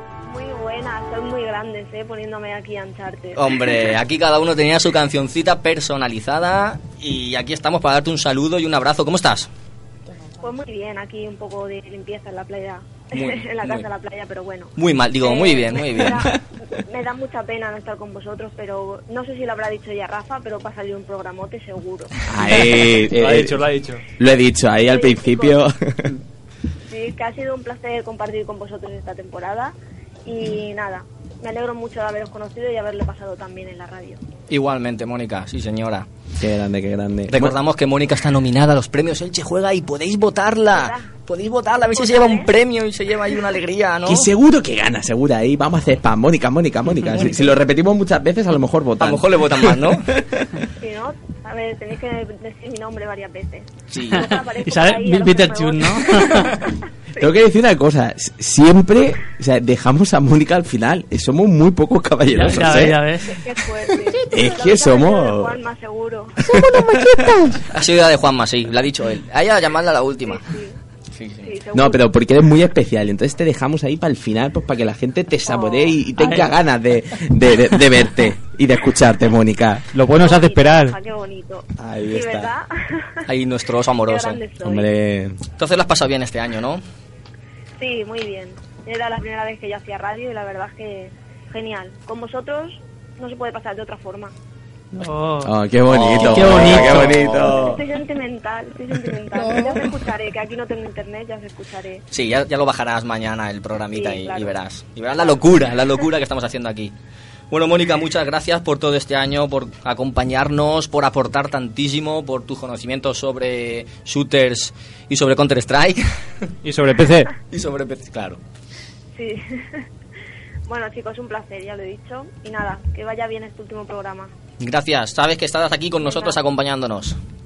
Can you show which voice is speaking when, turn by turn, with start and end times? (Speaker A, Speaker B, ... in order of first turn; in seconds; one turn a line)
Speaker A: 0.2-3.5
Speaker B: 3.4-9.5
Speaker A: 10.4-22.2
Speaker B: 13.1-13.8
Speaker B: 14.8-16.4
Speaker C: 22.3-23.6
Speaker D: 23.2-24.0
Speaker C: 24.2-26.1
Speaker A: 24.8-25.6
Speaker A: 26.9-34.2
Speaker B: 34.5-36.1
Speaker C: 36.4-37.5
Speaker B: 37.3-44.3
Speaker A: 40.7-41.1
Speaker A: 41.9-42.5
Speaker C: 44.0-50.5
Speaker B: 49.0-50.1
Speaker A: 50.8-56.7
Speaker B: 53.9-54.2
Speaker E: 54.1-56.6
Speaker C: 57.2-63.0
Speaker E: 62.3-63.3
Speaker A: 63.2-66.4
Speaker C: 64.3-65.6
Speaker C: 66.4-67.3
Speaker D: 66.9-67.3
Speaker B: 67.7-70.4
Speaker A: 70.2-70.8
Speaker B: 71.2-71.5
Speaker A: 71.4-72.0
Speaker C: 71.7-79.8
Speaker A: 75.5-76.0
Speaker E: 76.2-76.5
Speaker D: 79.9-81.0
Speaker A: 80.2-83.2
Speaker C: 81.8-82.5
Speaker B: 83.3-84.4
Speaker A: 84.0-84.9
Speaker C: 84.6-85.4
Speaker B: 85.6-86.8
Speaker A: 87.8-94.3
Speaker E: 94.9-95.5
Speaker C: 95.4-97.8
Speaker B: 95.9-97.2
Speaker E: 96.2-97.2
Speaker A: 97.4-102.0
Speaker B: 102.1-106.9
Speaker A: 103.9-104.5
Speaker B: 107.5-116.0
Speaker D: 116.6-117.3
Speaker B: 117.5-118.4
Speaker A: 119.1-119.8
Speaker A: 120.7-124.3
Speaker B: 124.6-127.2
Speaker A: 126.0-126.4